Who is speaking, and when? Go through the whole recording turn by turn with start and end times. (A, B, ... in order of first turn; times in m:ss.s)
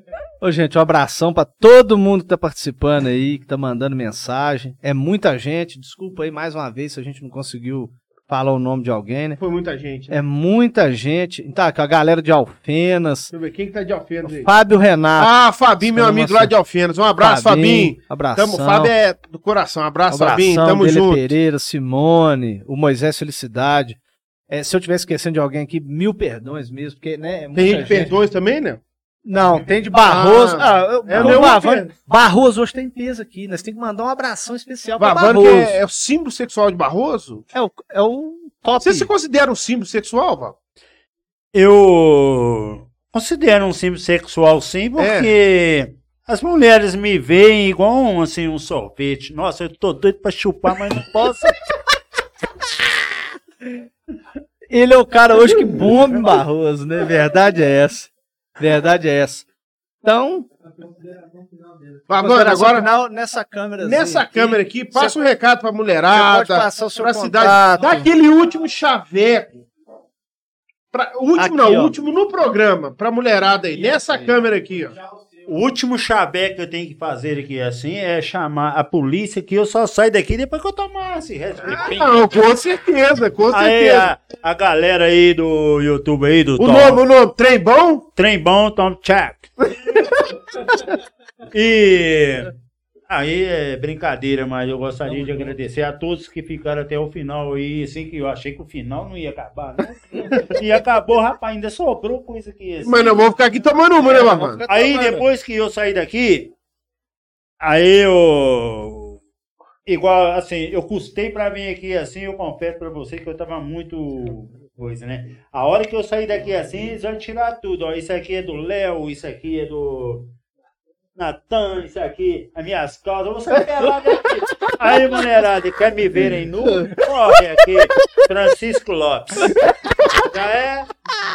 0:00.4-0:09.4 A
0:09.4-0:10.1 B
0:10.1-0:13.3 A
0:13.3-0:14.5 B
0:14.3-0:16.5 A
0:15.2-0:21.3 B
0:17.2-0:18.9 A
0:20.1-0:24.0 A
0:24.5-0:28.1 A
0:27.6-0:28.8 B
0:29.2-0:35.8 A
0:30.1-0:31.9 B
0:35.0-0:37.4 B
0:37.5-0:39.1 A
0:38.8-0:40.6 B
0:41.5-0:51.6 C
0:45.0-0:45.3 B
0:54.7-0:59.4 A
0:55.6-0:56.4 C
1:00.0-1:00.5 A
1:02.1-1:02.9 B
1:02.2-1:05.2 A
1:03.8-1:09.6 B
1:06.1-1:08.1 A
1:10.9-1:14.9 B
1:11.4-1:11.9 A
1:15.5-1:22.3 C
1:21.6-1:24.1 B
1:23.5-1:27.0 C
1:26.6-1:28.1 B
1:28.2-1:29.6 C
1:31.5-1:32.5 C
1:33.1-1:43.2 C
1:42.8-1:44.6 B
1:44.0-1:45.2 A
1:44.7-1:46.5 C
1:47.6-1:49.2 C
1:49.9-2:00.3 C
2:01.2-2:09.6 C
2:10.2-2:10.9 C